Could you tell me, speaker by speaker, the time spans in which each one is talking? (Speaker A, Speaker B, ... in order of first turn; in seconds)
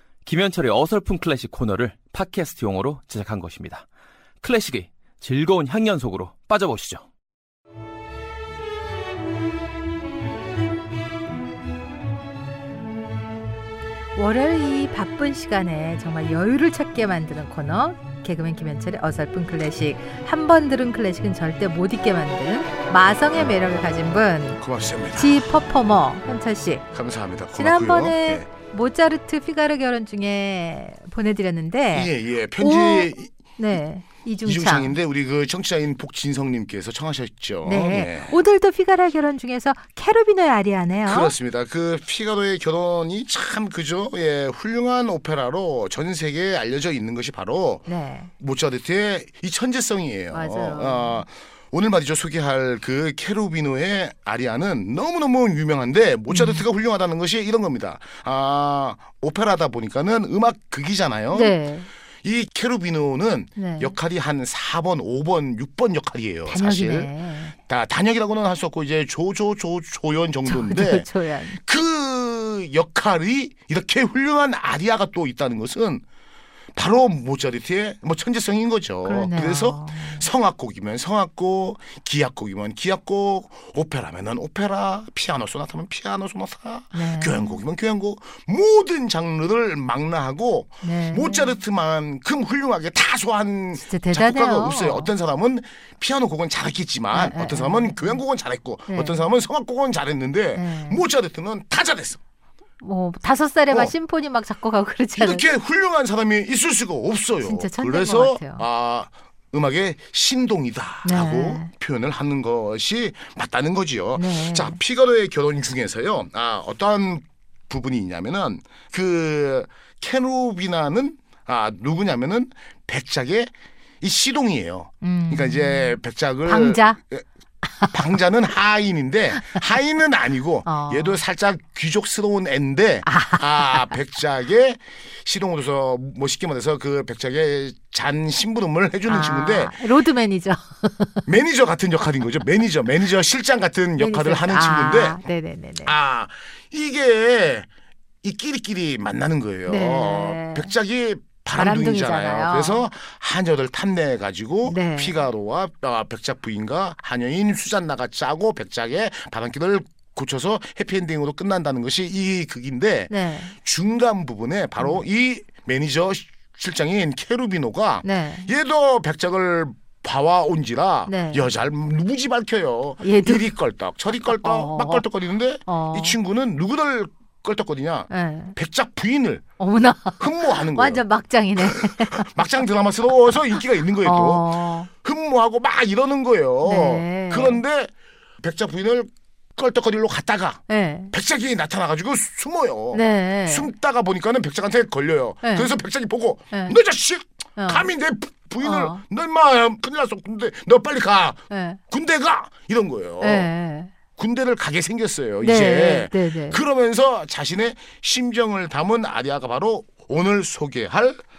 Speaker A: 0.3-3.8, 4.4-7.0
Speaker B: 14.1-24.6, 25.1-26.9, 27.5-35.0, 37.6-41.3, 47.9-48.3, 50.3-51.2, 56.3-56.6, 61.3-61.9, 63.5-63.9, 66.5-67.5, 70.5-71.6, 79.0-80.3, 86.9-87.6, 90.8-91.6, 93.8-95.1, 97.1-98.2, 98.9-99.2, 100.5-101.0, 102.8-105.5, 107.4-108.6, 111.0-111.7, 114.1-114.8, 125.0-127.0, 127.6-127.9, 129.4-129.6, 130.7-131.2, 133.0-133.9, 139.1-141.3, 144.0-145.9, 149.7-150.7, 151.5-152.8, 154.6-155.2, 163.1-163.5, 168.0-168.5, 171.1-171.5, 173.0-173.5, 174.1-175.1, 175.7-176.2, 178.1-178.6, 179.6-182.3, 183.5-184.9, 186.6-187.6, 190.7-191.1, 192.9-193.7, 195.4-195.8, 196.5-196.8, 197.6-197.9, 198.6-199.0, 201.5-201.8, 203.2-203.9, 205.4-206.6
Speaker C: 24.6-25.5, 26.9-28.5, 31.9-33.4, 34.4-38.4, 41.0-47.9, 48.4-61.6, 62.2-76.0, 76.8-102.2, 103.7-103.9, 105.2-127.2, 127.9-139.8, 141.2-145.2, 145.8-147.7, 148.2-179.4, 180.2-181.0, 181.6-203.5, 204.2-211.2